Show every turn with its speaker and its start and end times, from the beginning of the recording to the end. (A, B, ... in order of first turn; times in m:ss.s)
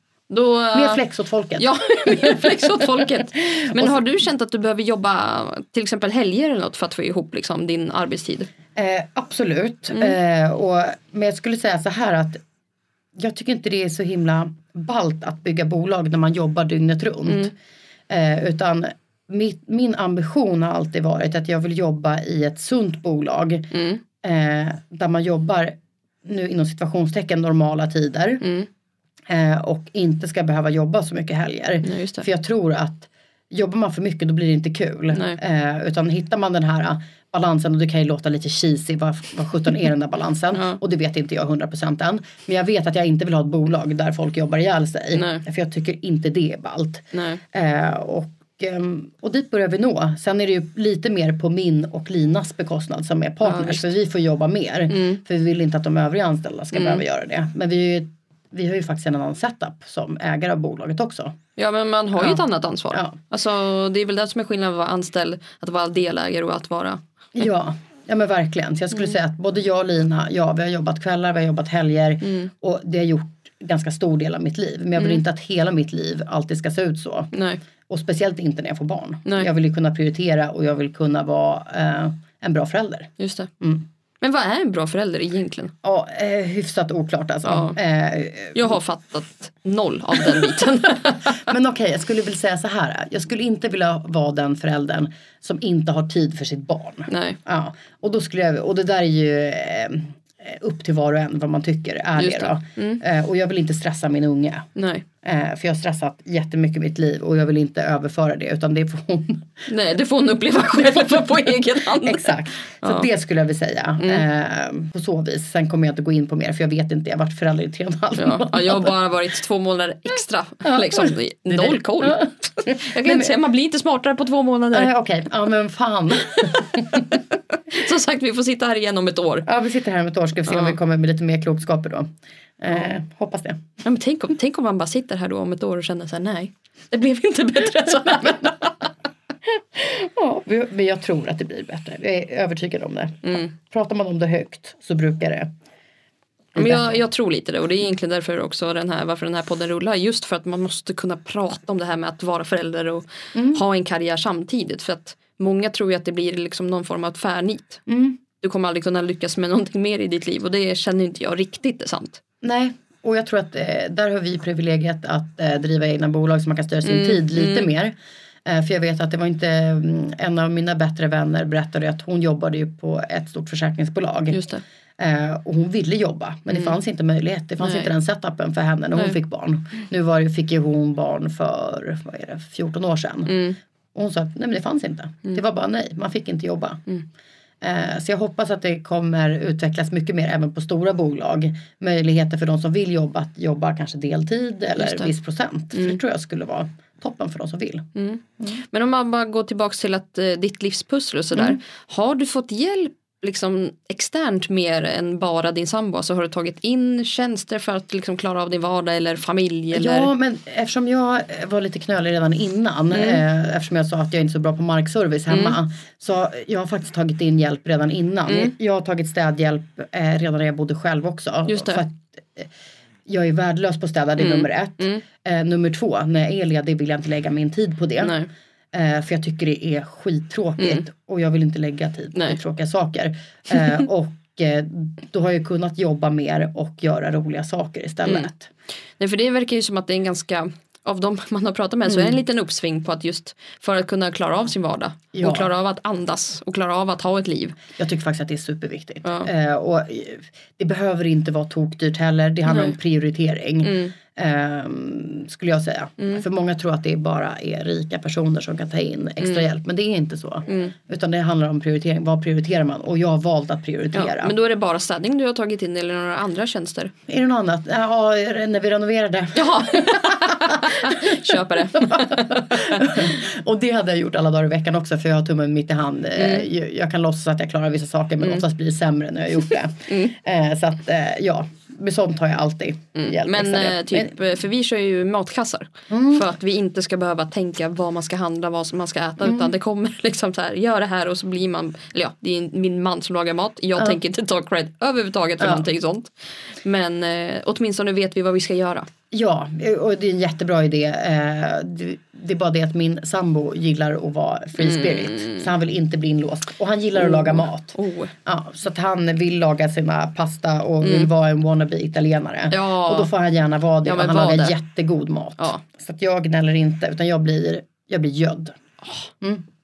0:00.3-0:01.0 A
0:00.7-0:04.0 B
0:01.6-0:08.5 A
0:08.8-0:12.4 B
0:13.2-0:17.5 B
0:17.3-0:17.5 A
0:18.1-0:28.5 B
0:23.7-0:24.0 A
0:28.4-0:28.7 A
0:29.3-1:01.4 B
0:31.8-0:32.3 A
0:35.1-0:35.4 A
0:40.5-0:40.8 A
0:45.1-0:45.4 A
0:47.1-0:47.4 A
0:53.4-0:53.9 A
0:54.9-0:55.2 A
0:56.7-0:57.0 A
1:01.6-1:07.0 A
1:02.2-1:03.2 B
1:07.4-1:17.3 B
1:12.2-1:12.5 A
1:17.3-1:17.6 A
1:17.9-1:23.8 B
1:23.2-1:23.5 A
1:24.2-1:25.7 A
1:25.8-1:28.7 B
1:27.4-1:27.8 A
1:28.6-1:31.4 A
1:31.2-1:44.7 B
1:37.1-1:37.4 A
1:42.2-1:43.0 A
1:44.8-1:45.1 A
1:45.2-1:49.7 B
1:49.7-1:53.1 A
1:50.6-1:51.3 B
1:51.9-1:58.9 B
1:58.2-2:04.9 A
2:00.6-2:03.4 B
2:04.7-2:07.2 B
2:07.7-2:09.5 A
2:09.5-2:12.1 B
2:10.5-2:10.8 A
2:12.6-2:13.6 B
2:13.8-2:18.9 A
2:19.8-2:25.5 B
2:23.2-2:23.5 A
2:26.6-2:27.0 B
2:26.6-2:37.8 A
2:33.4-2:33.6 B
2:37.9-2:38.2 B
2:38.4-2:42.2 A
2:42.4-2:47.9 B
2:46.8-2:47.7 A
2:48.4-2:54.4 B
2:54.3-2:54.6 A
2:55.0-3:06.8 B
2:57.6-2:57.9 A
3:03.3-3:03.6 A
3:07.6-3:17.9 B
3:14.8-3:15.1 A
3:18.0-3:30.1 A
3:29.7-3:42.5 B
3:32.9-3:33.2 A
3:35.3-3:35.6 A
3:38.3-3:38.5 A
3:41.5-3:41.8 A
3:43.1-3:48.2 B
3:44.2-3:45.0 A
3:48.0-3:48.3 A
3:48.7-3:58.5 B
3:53.5-3:53.8 A
3:59.0-4:07.6 A
4:01.8-4:02.2 B
4:05.1-4:05.5 B
4:07.8-4:24.3 B
4:09.0-4:09.3 A
4:12.5-4:12.7 A
4:13.6-4:13.9 A
4:20.5-4:20.7 A
4:23.9-4:26.9 A
4:27.1-4:44.1 B
4:29.4-4:33.1 A
4:36.2-4:36.4 A
4:39.9-4:40.1 A
4:43.0-4:56.1 A
4:45.9-4:46.3 B
4:49.2-4:49.5 B
4:55.4-4:55.7 B
4:56.6-4:58.9 A
4:59.1-5:18.6 B
5:04.6-5:05.5 A
5:07.0-5:08.1 A
5:10.8-5:11.1 A
5:12.5-5:13.1 A
5:13.8-5:14.5 A